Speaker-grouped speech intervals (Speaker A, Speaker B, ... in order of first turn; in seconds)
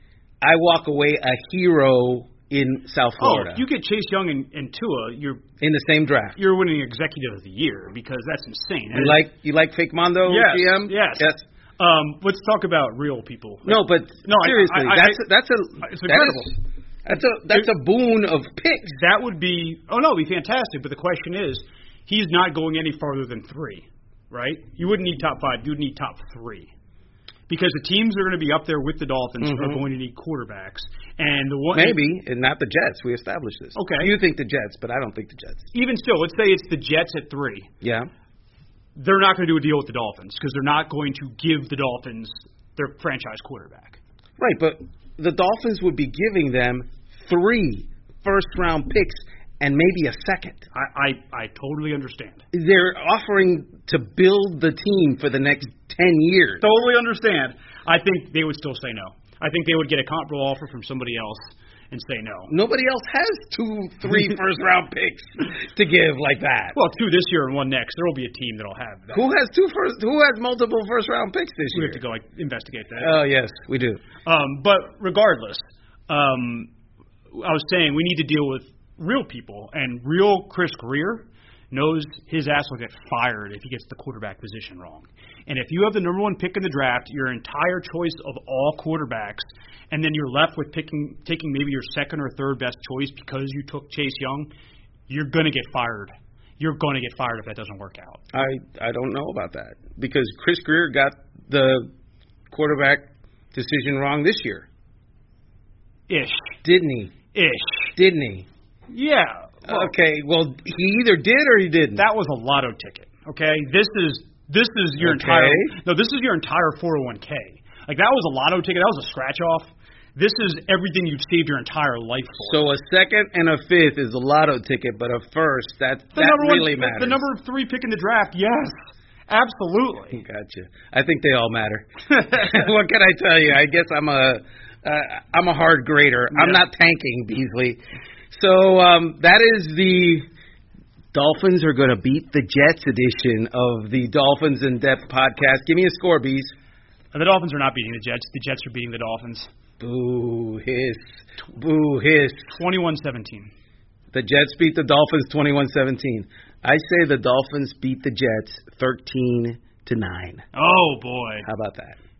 Speaker A: 0.4-3.6, 5.6-6.4, 8.9-11.4, 13.7-19.0, 29.4-29.8, 31.7-35.7, 37.8-38.1, 44.4-50.6, 52.5-56.6, 62.5-66.8, 69.1-72.0, 73.0-74.0, 98.3-101.9, 102.5-104.7, 106.6-107.1, 108.0-108.5, 109.6-112.0, 115.0-115.7, 122.4-127.2, 130.1-137.8, 138.3-140.3, 141.1-146.5, 149.8-152.6, 154.1-160.4, 161.4-162.0
Speaker B: 3.2-5.4, 6.4-9.2, 10.3-15.2, 15.8-16.6, 18.9-26.7, 27.5-32.0, 33.8-34.1, 35.7-37.7, 39.0-44.0, 50.7-52.4, 56.6-62.5, 66.7-69.3, 71.7-73.2, 74.2-76.7, 77.3-94.5, 95.1-98.2, 106.1-106.5, 107.3-107.9, 108.9-109.9, 112.0-122.7, 126.1-128.7, 129.3-130.2, 136.3-136.6, 147.1-149.5, 152.5-153.5, 160.5-161.4